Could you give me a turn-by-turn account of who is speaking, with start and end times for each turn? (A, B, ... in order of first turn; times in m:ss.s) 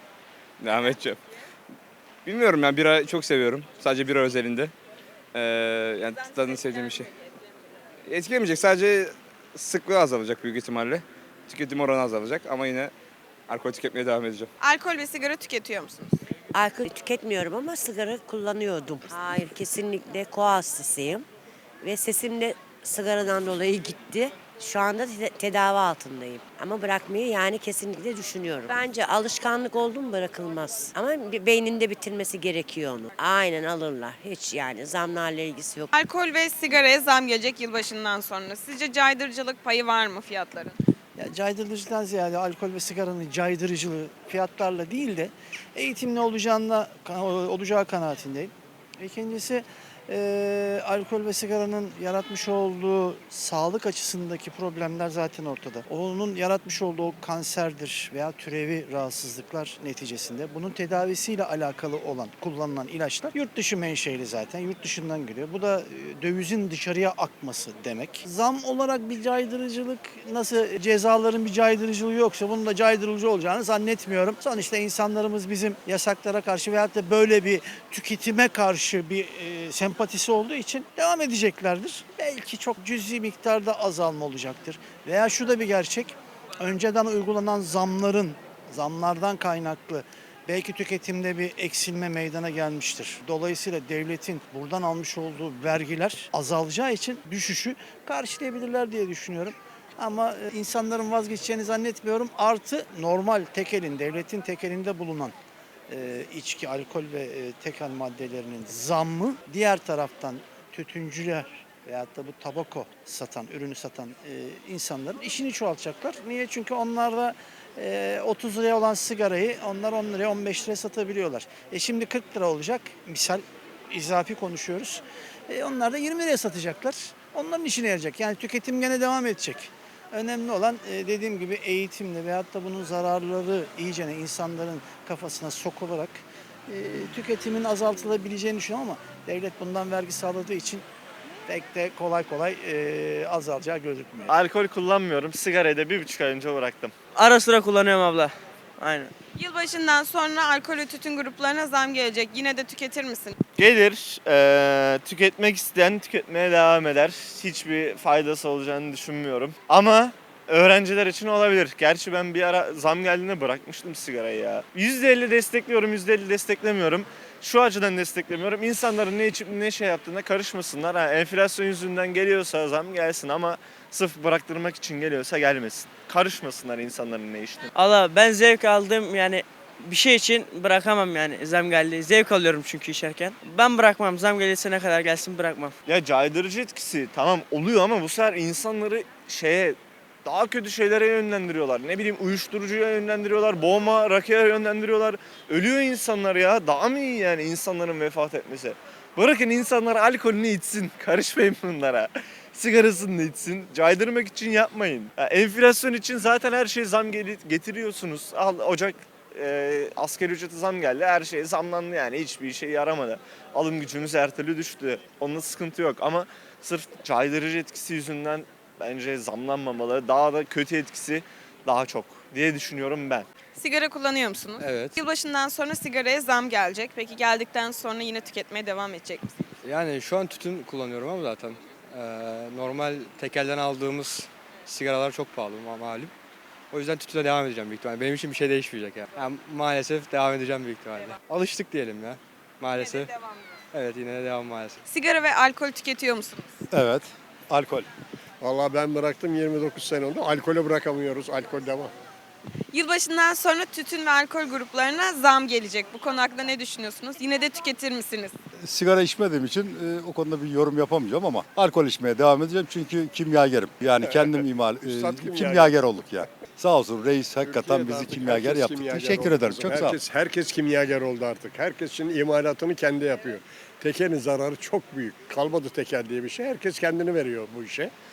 0:00.6-0:01.2 A
0:02.2-0:04.7 A
0:05.3-0:07.1 A
0:08.0-0:12.9 A
0:13.5-0:14.5 A
0:14.6-0:16.2 B
0:16.5-0:21.2 C
0:21.8-0:35.9 C
0:35.9-0:40.8 B
0:41.2-1:45.3 D
1:45.9-2:20.8 D
2:21.5-2:24.3 D
2:24.3-2:26.9 E
2:27.1-2:29.1 F
2:29.3-2:33.4 B
2:33.6-2:57.7 E
2:57.7-3:05.8 F
3:05.8-3:43.2 E
3:43.5-3:49.4 B
3:44.6-3:45.0 G
3:49.6-3:56.1 G
3:56.7-4:03.2 G
4:03.7-4:04.8 G
4:04.8-4:06.6 B
4:06.7-4:07.9 H
4:08.4-4:11.9 I
4:12.7-4:18.4 B
4:18.6-4:30.0 H
4:24.0-4:25.8 I
4:27.4-4:37.9 I